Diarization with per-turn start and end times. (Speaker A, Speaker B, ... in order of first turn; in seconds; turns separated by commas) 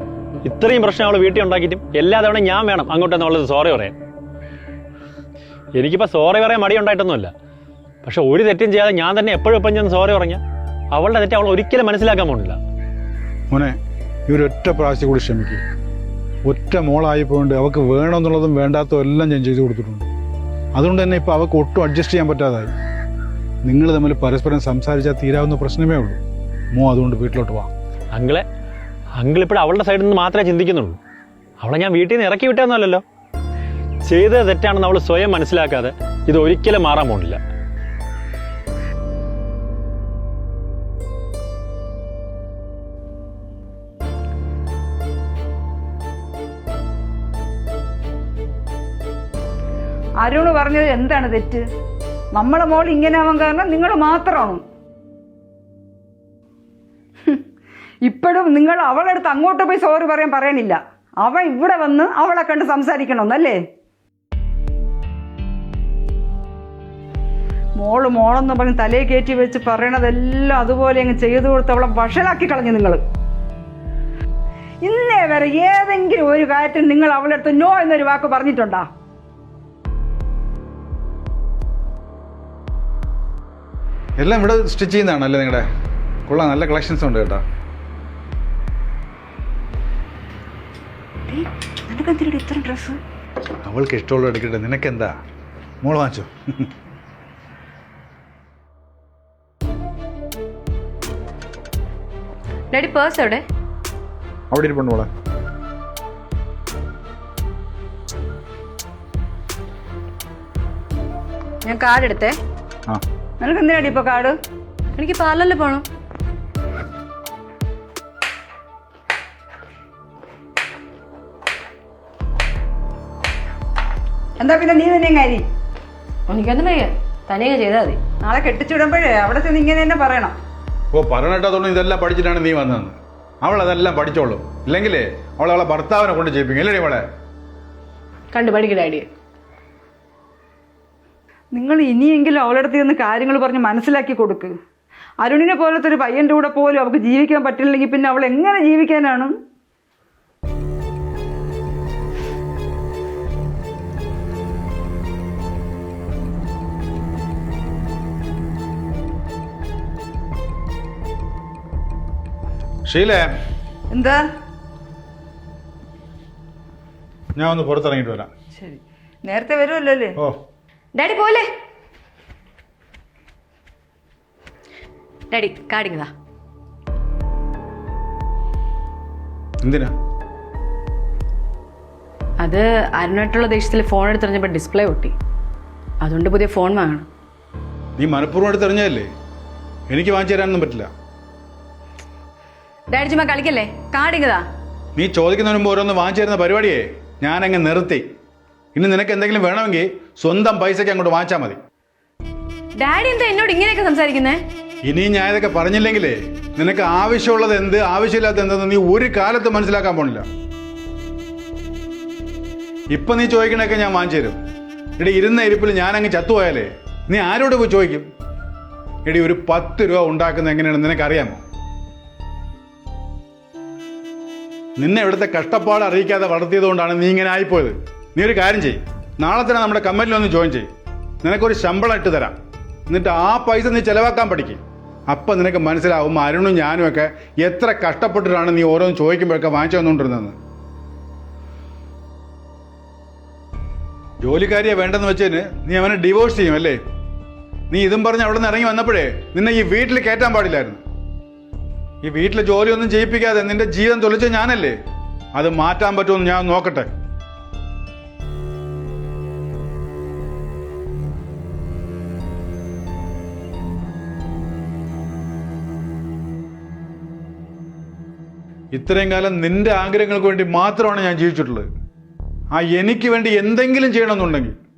Speaker A: 0.4-4.0, Speaker A: 5.8-7.3, Speaker A: 8.0-10.4, Speaker A: 10.9-12.6, Speaker B: 13.5-13.8, Speaker B: 14.3-15.6, Speaker B: 16.4-20.1, Speaker B: 20.8-22.7, Speaker B: 23.6-26.2, Speaker B: 26.7-27.7, Speaker A: 28.1-28.4, Speaker A: 29.2-31.0, Speaker A: 31.6-33.0, Speaker A: 34.0-37.4, Speaker C: 50.2-51.6, Speaker C: 52.3-54.6, Speaker C: 58.0-63.6, Speaker C: 67.8-73.0, Speaker C: 74.8-78.9, Speaker B: 84.2-85.7, Speaker B: 86.3-87.4, Speaker C: 91.3-93.0, Speaker B: 93.6-95.1, Speaker B: 95.8-96.7, Speaker D: 102.7-103.4, Speaker B: 104.5-105.1, Speaker D: 111.6-112.4, Speaker C: 113.4-114.3, Speaker D: 115.0-115.8, Speaker C: 124.4-125.4, Speaker D: 126.3-128.0, Speaker C: 128.2-130.3, Speaker B: 130.9-137.0, Speaker D: 138.3-139.1, Speaker C: 141.5-144.5, Speaker C: 145.2-149.3, Speaker B: 162.9-163.3, Speaker C: 163.9-164.2, Speaker B: 167.4-168.3, Speaker C: 168.6-170.2, Speaker D: 170.9-171.5, Speaker D: 175.3-176.1, Speaker B: 179.6-179.9, Speaker D: 182.4-185.2, Speaker D: 186.0-187.1, Speaker B: 188.0-189.1, Speaker B: 189.9-190.9, Speaker D: 192.9-194.4, Speaker B: 195.0-198.0, Speaker B: 198.8-201.6, Speaker D: 202.8-204.4, Speaker B: 204.8-210.2, Speaker B: 212.9-214.4, Speaker B: 215.0-218.1, Speaker B: 219.1-221.4, Speaker B: 224.8-230.7, Speaker B: 231.2-232.4, Speaker B: 232.9-240.3, Speaker B: 244.2-246.8, Speaker B: 247.7-250.8, Speaker B: 252.0-254.8, Speaker B: 255.3-256.9, Speaker B: 268.7-271.7, Speaker B: 272.5-274.6